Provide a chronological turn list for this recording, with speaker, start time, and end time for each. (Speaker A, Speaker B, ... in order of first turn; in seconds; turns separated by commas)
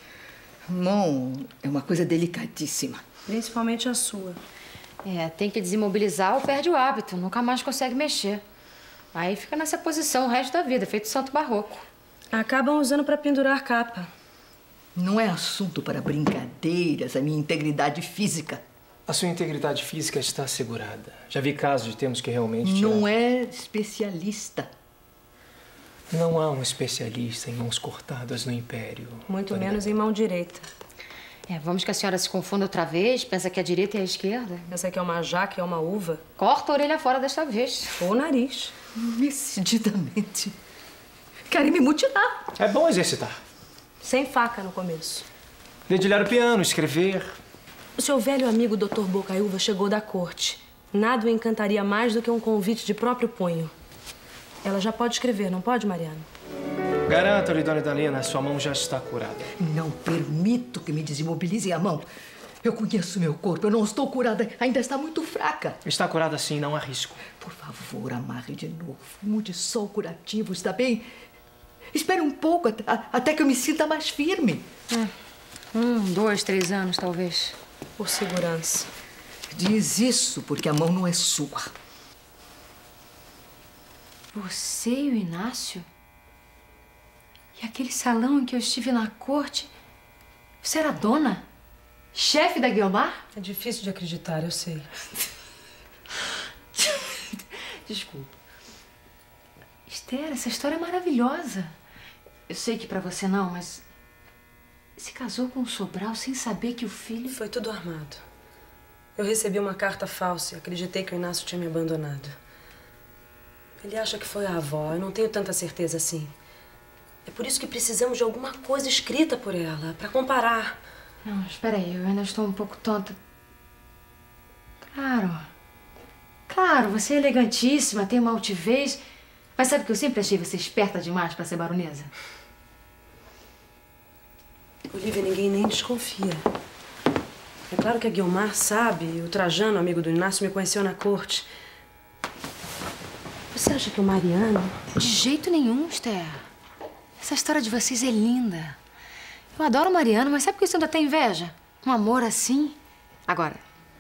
Speaker A: 0.7-3.0, Speaker B: 3.3-4.4, Speaker C: 5.0-8.4, Speaker C: 9.1-11.8, Speaker B: 12.3-14.1, Speaker A: 14.9-18.6, Speaker D: 19.1-23.1, Speaker A: 22.6-24.7, Speaker D: 26.1-29.8, Speaker B: 29.3-30.7, Speaker C: 31.5-34.7, Speaker B: 34.7-36.2, Speaker C: 36.4-38.0, Speaker B: 38.0-38.7, Speaker A: 39.0-40.6, Speaker A: 41.5-42.4, Speaker D: 42.6-43.4, Speaker B: 44.0-45.3, Speaker D: 45.9-47.3, Speaker B: 48.0-53.7, Speaker B: 54.6-56.3, Speaker D: 57.1-59.5, Speaker A: 59.6-62.1, Speaker A: 62.6-65.8, Speaker D: 65.8-67.2, Speaker A: 67.4-71.1, Speaker A: 71.9-74.7, Speaker C: 75.7-77.6, Speaker B: 78.0-78.9, Speaker A: 79.5-81.7, Speaker C: 84.3-85.8, Speaker C: 87.6-89.7, Speaker C: 90.6-91.4, Speaker C: 92.2-93.2, Speaker B: 93.3-94.9, Speaker C: 96.8-98.3, Speaker C: 99.9-101.7, Speaker C: 102.5-103.8, Speaker C: 105.0-107.4, Speaker B: 107.3-108.2, Speaker B: 109.2-112.3, Speaker B: 113.8-116.3, Speaker B: 117.2-120.8, Speaker C: 121.2-123.2, Speaker C: 124.8-125.5, Speaker C: 126.5-129.0, Speaker C: 129.6-132.1, Speaker B: 134.9-136.4, Speaker B: 137.7-141.5, Speaker B: 143.5-144.8, Speaker C: 144.9-146.4, Speaker C: 147.2-148.8, Speaker C: 149.6-152.8, Speaker C: 153.3-153.6